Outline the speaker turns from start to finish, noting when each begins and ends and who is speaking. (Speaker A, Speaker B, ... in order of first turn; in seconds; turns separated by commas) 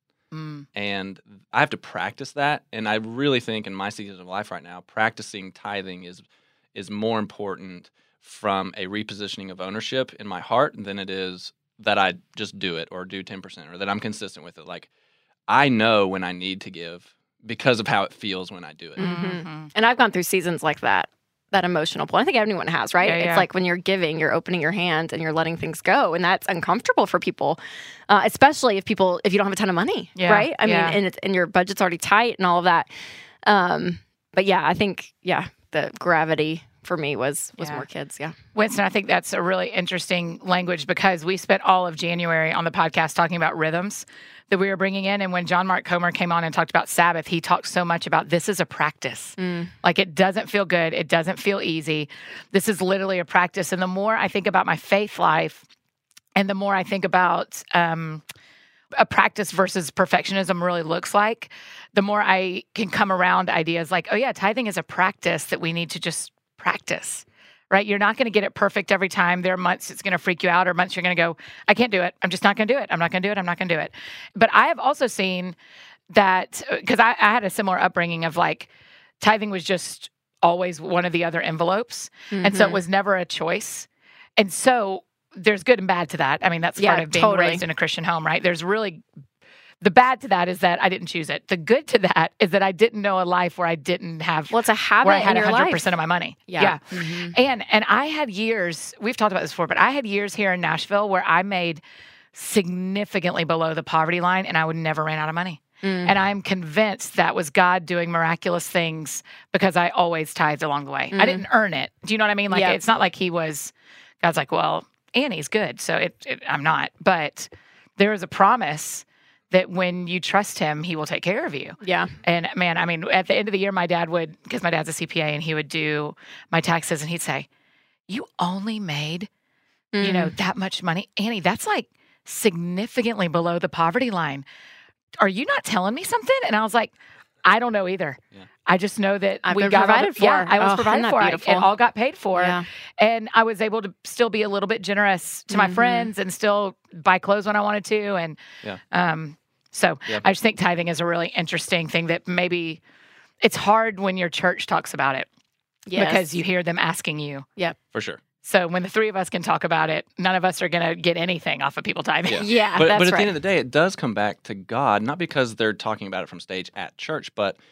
Speaker A: 0.3-0.7, Speaker B: 0.7-14.9, Speaker B: 15.5-19.1, Speaker C: 19.0-32.9, Speaker A: 19.0-19.7, Speaker A: 23.0-23.4, Speaker A: 30.1-31.0, Speaker C: 33.4-38.4, Speaker A: 37.6-37.8, Speaker A: 38.5-55.6, Speaker C: 49.4-49.7, Speaker A: 56.4-58.2, Speaker A: 58.9-75.5, Speaker A: 76.1-78.7, Speaker A: 79.2-83.9, Speaker C: 82.3-82.8, Speaker A: 84.4-89.0, Speaker C: 86.8-87.6, Speaker A: 89.8-101.8, Speaker C: 94.5-95.9, Speaker C: 96.5-97.3, Speaker A: 102.3-127.5, Speaker C: 105.8-106.1, Speaker C: 111.1-111.4, Speaker C: 112.5-112.8, Speaker C: 121.8-122.1, Speaker A: 128.1-129.3, Speaker C: 129.9-130.3, Speaker A: 130.0-134.4, Speaker A: 135.2-136.9, Speaker A: 137.4-148.4, Speaker C: 139.4-141.7, Speaker C: 142.3-142.7, Speaker C: 145.5-146.1, Speaker A: 148.9-152.8, Speaker A: 153.4-155.3, Speaker C: 155.9-156.3, Speaker A: 155.9-157.4, Speaker B: 157.9-158.2, Speaker A: 158.4-162.5, Speaker B: 162.3-167.6, Speaker C: 162.3-163.3